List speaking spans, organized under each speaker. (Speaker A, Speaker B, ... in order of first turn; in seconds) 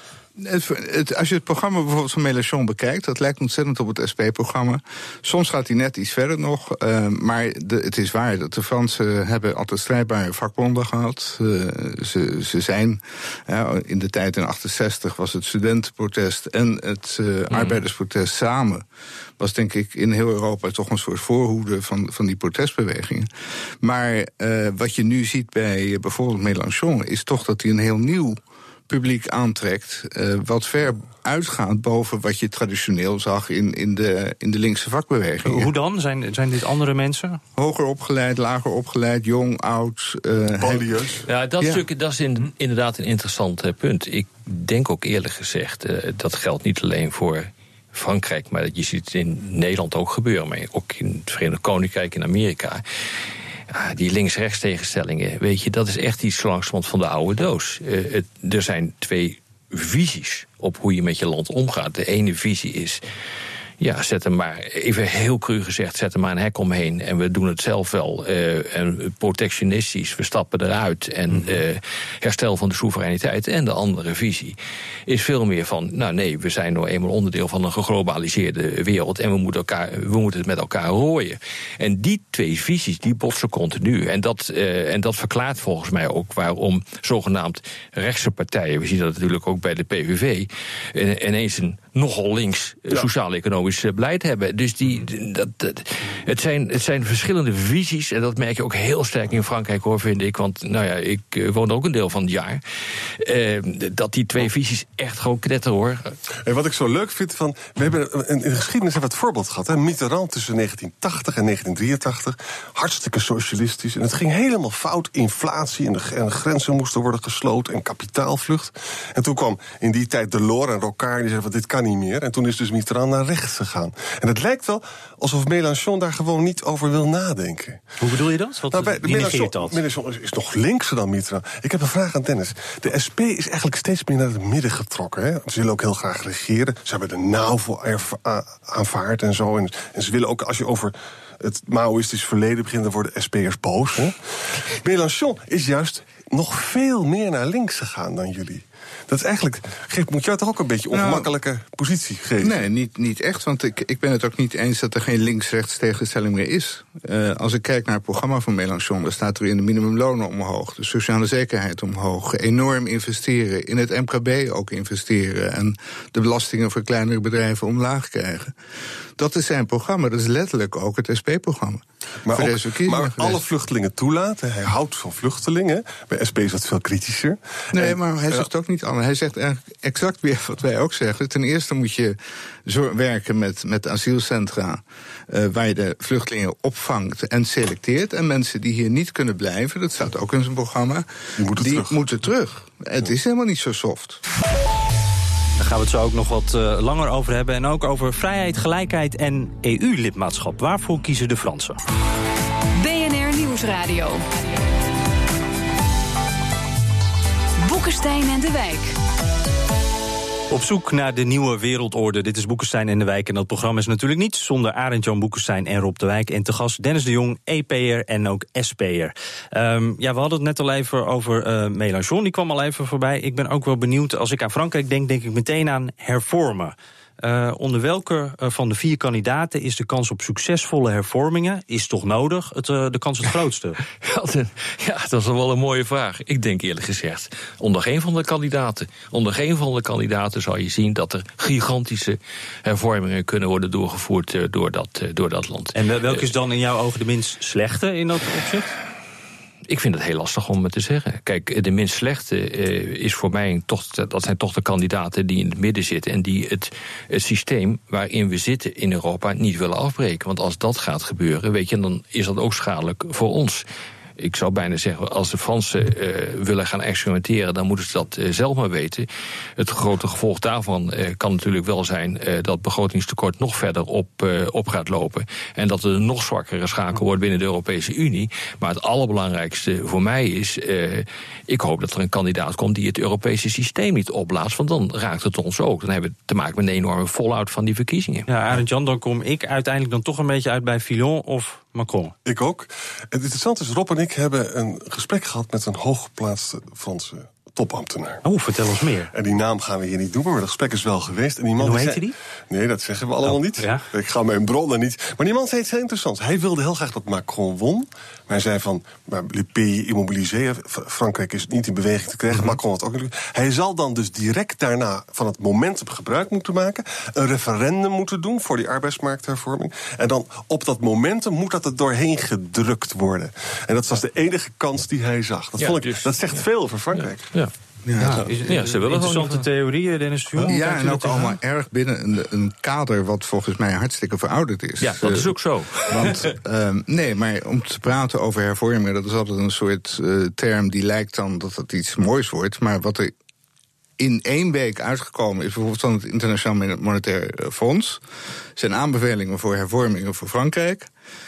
Speaker A: 0.4-18.8, 19.4-23.3, 23.8-35.7, 37.5-41.8, 150.9-151.3, 152.4-168.5, 169.2-173.4, 177.7-194.2, 327.8-328.3, 330.5-343.1, 344.0-348.0, 348.6-350.9
Speaker B: 17.5-17.8, 41.3-52.8, 53.7-63.0, 63.8-74.5, 75.1-106.2, 234.0-246.2, 249.7-263.6, 264.2-288.3, 325.6-327.5, 328.5-329.4, 334.8-336.1
Speaker C: 35.4-37.4, 71.3-71.6, 128.0-129.8, 195.6-201.8, 210.5-233.8, 245.7-248.8, 288.3-292.1, 298.2-299.1, 301.6-302.1, 303.2-303.9, 328.0-331.4
Speaker D: 40.6-41.2, 106.4-127.8, 128.7-152.6, 172.2-178.4, 191.4-192.0, 292.2-298.2, 299.1-327.3
Speaker E: 202.8-204.2, 207.6-208.9